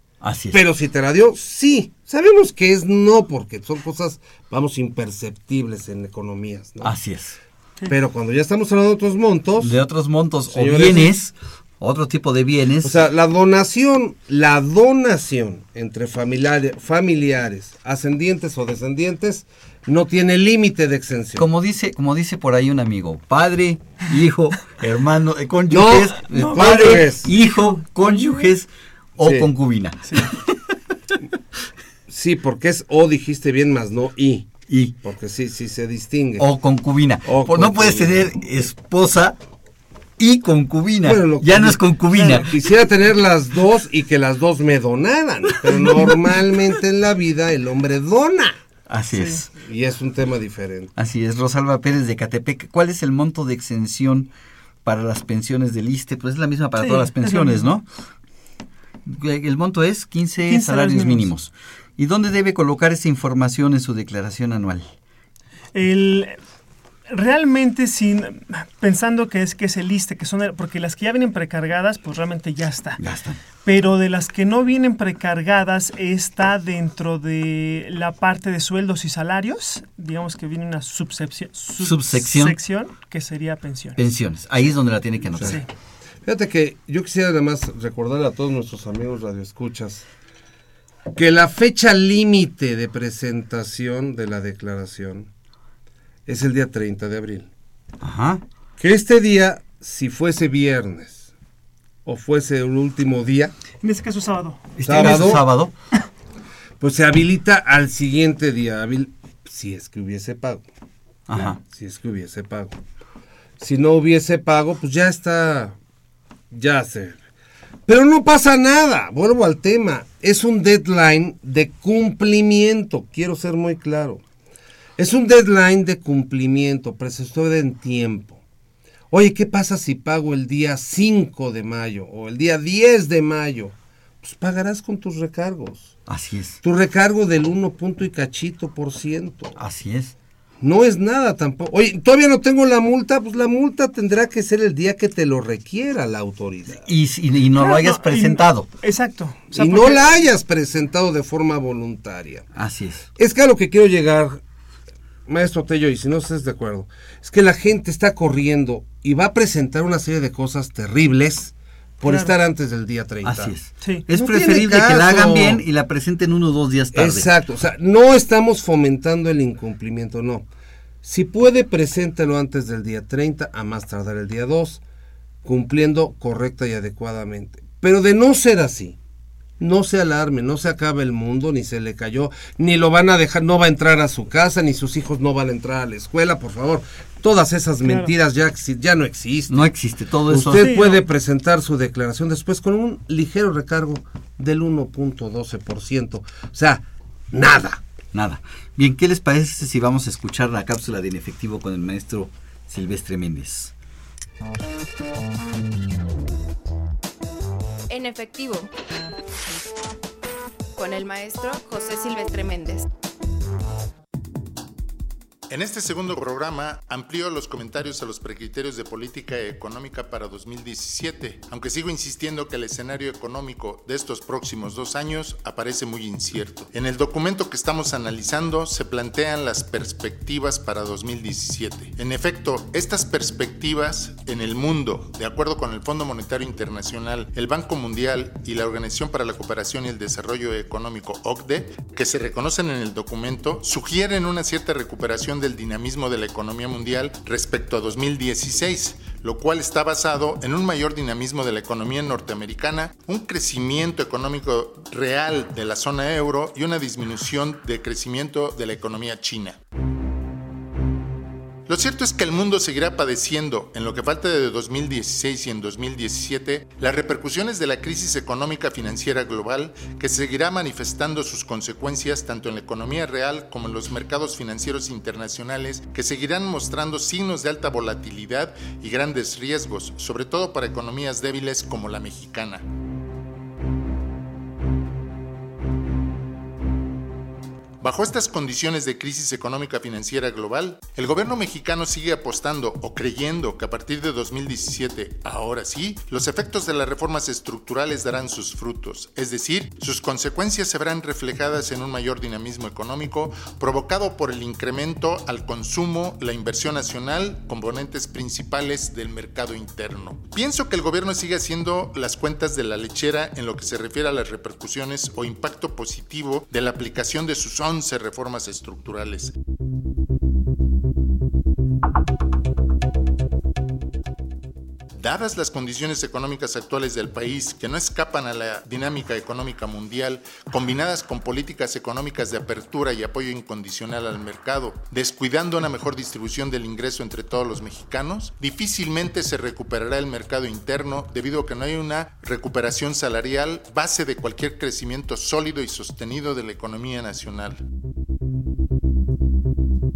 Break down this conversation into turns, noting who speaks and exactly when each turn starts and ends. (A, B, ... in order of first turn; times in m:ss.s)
0:00.2-0:00.6 A
0:00.5-0:06.9 B
0:06.8-0:07.4 A
0:07.9-0:09.8 B
0:09.6-0:13.0 A
0:10.5-0:11.1 B
0:12.8-0:21.5 B
0:21.4-0:30.8 A
0:25.7-0:27.3 B
0:26.3-0:27.0 C
0:29.2-0:29.5 B
0:32.1-0:36.5 B
0:34.7-0:35.0 A
0:36.4-0:39.4 A
0:37.3-0:38.3 B
0:40.2-0:42.6 A
0:41.0-0:48.6 B
0:42.1-0:42.5 C
0:48.9-0:49.5 A
0:49.1-0:49.4 C
0:49.6-0:50.9 B
0:51.0-0:54.3 A
0:54.8-0:57.9 A
0:56.8-0:57.7 C
0:59.0-1:04.9 A
1:00.5-1:01.3 C
1:05.7-1:06.4 C
1:07.1-1:13.0 C
1:13.0-1:13.4 A
1:13.6-1:24.0 C
1:21.8-1:22.6 A
1:24.0-1:25.6 A
1:25.4-1:25.7 C
1:26.2-1:30.0 B
1:31.1-1:35.3 B
1:36.3-1:37.5 B
1:38.0-1:38.4 A
1:38.8-1:41.3 B
1:42.0-1:43.5 B
1:43.8-1:45.3 C
1:44.8-1:45.7 A
1:44.8-1:45.4 B
1:46.8-1:50.6 B
1:51.3-1:51.6 A
1:51.3-1:52.8 B
1:53.6-1:55.8 B
1:56.5-1:57.2 B
1:57.9-2:04.2 B
2:05.0-2:08.4 B
2:09.1-2:16.0 B
2:16.1-2:16.6 A
2:16.6-2:19.6 B
2:19.6-2:20.1 A
2:20.6-2:26.9 B
2:26.8-2:28.7 A
2:27.6-2:30.0 C
2:29.5-2:32.5 B
2:32.5-2:33.1 A
2:33.2-2:34.4 B
2:35.3-2:43.5 B
2:42.1-2:42.3 C
2:43.2-2:47.3 A
2:43.8-2:44.1 C
2:44.1-2:45.6 B
2:46.9-2:50.5 B
2:51.0-2:54.8 B
2:55.4-2:59.0 B
2:59.6-3:09.7 B
3:07.8-3:08.1 C
3:09.5-3:10.7 A
3:10.3-3:17.8 B
3:10.5-3:11.0 C
3:18.1-3:23.7 A
3:27.9-3:28.7 D
3:30.8-3:32.9 D
3:35.5-4:19.6 E
4:21.7-4:42.6 E
4:47.8-5:19.3 E
5:25.0-5:47.6 E